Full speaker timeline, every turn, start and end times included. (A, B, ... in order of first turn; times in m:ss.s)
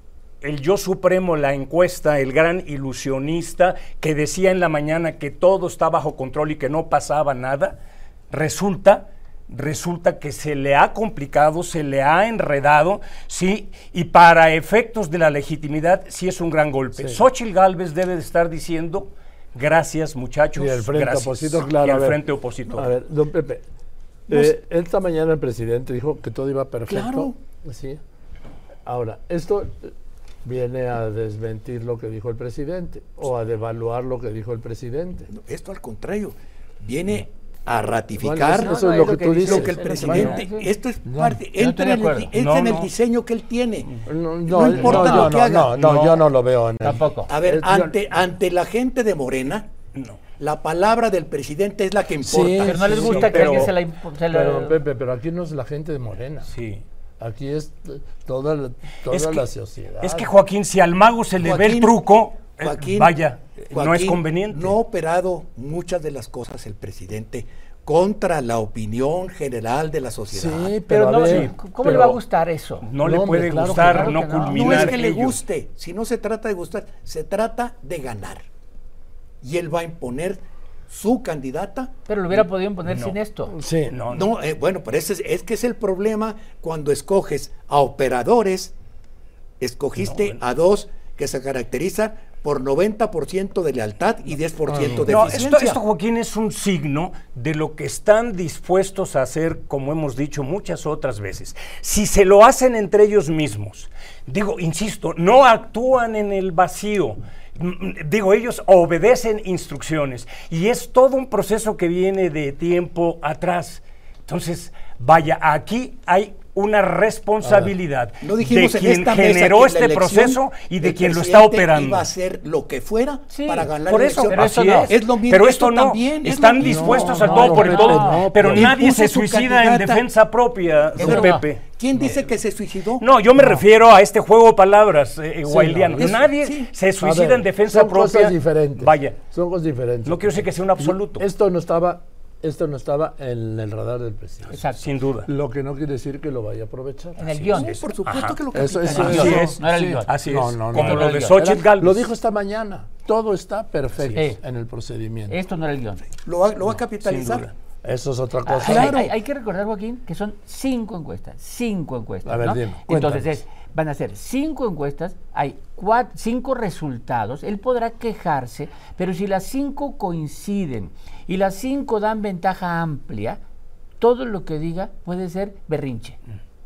0:00.4-0:07.8 A
0:08.3-0:22.9 A
0:17.0-0:17.2 B
0:20.6-0:22.2 B
0:22.7-0:23.6 B
0:24.3-0:28.0 B
0:26.9-0:27.4 C
0:28.8-0:35.3 B
0:35.3-0:38.8 C
0:38.2-0:40.4 B
0:38.6-0:40.7 D
0:39.4-0:43.9 C
0:41.0-0:41.4 B
0:41.6-0:42.3 D
0:42.3-0:42.9 A
0:44.1-0:48.0 B
0:44.5-0:45.7 C
0:44.8-0:46.3 A
0:46.8-0:47.3 D
0:47.3-0:49.7 C
0:49.9-0:50.2 A
0:50.4-0:53.0 C
0:52.2-0:53.7 B
0:52.6-0:54.8 D
0:52.9-0:53.8 A
0:54.3-0:56.5 B
0:56.5-0:56.8 A
0:57.2-1:00.3 B
0:59.1-0:59.5 A
1:00.0-1:04.8 A
1:01.4-1:02.0 C
1:02.6-1:03.2 C
1:03.7-1:10.7 C
1:10.3-1:12.2 B
1:10.9-1:12.9 D
1:11.2-1:12.1 A
1:12.8-1:15.4 A
1:13.0-1:14.2 B
1:13.8-1:15.0 D
1:14.5-1:18.5 C
1:19.4-1:21.9 C
1:22.1-1:23.6 D
1:22.3-1:23.2 A
1:23.5-1:24.0 B
1:23.9-1:24.3 A
1:24.1-1:28.7 C
1:29.6-1:35.8 C
1:30.0-1:30.4 A
1:34.8-2:02.1 A
1:57.4-1:57.7 B
1:58.2-2:07.2 C
2:03.3-2:03.7 D
2:03.8-2:12.2 A
2:04.3-2:04.9 D
2:06.6-2:08.7 B
2:07.1-2:08.3 D
2:08.4-2:10.0 C
2:11.0-2:13.0 C
2:11.0-2:11.5 D
2:13.0-2:19.2 A
2:15.4-2:16.2 B
2:16.0-2:16.7 C
2:17.0-2:24.6 B
2:20.0-2:21.2 A
2:24.5-2:24.9 D
2:24.5-2:25.3 A
2:25.2-2:27.2 B
2:27.2-2:27.8 D
2:27.2-2:32.1 A
2:27.6-2:29.5 C
2:28.5-2:35.4 B
2:28.8-2:31.6 D
2:35.3-2:36.1 D
2:36.2-2:37.5 C
2:36.8-2:37.5 A
2:37.8-2:39.0 B
2:38.5-2:53.4 D
2:38.6-2:39.1 C
2:42.2-2:43.4 B
2:54.0-2:56.2 D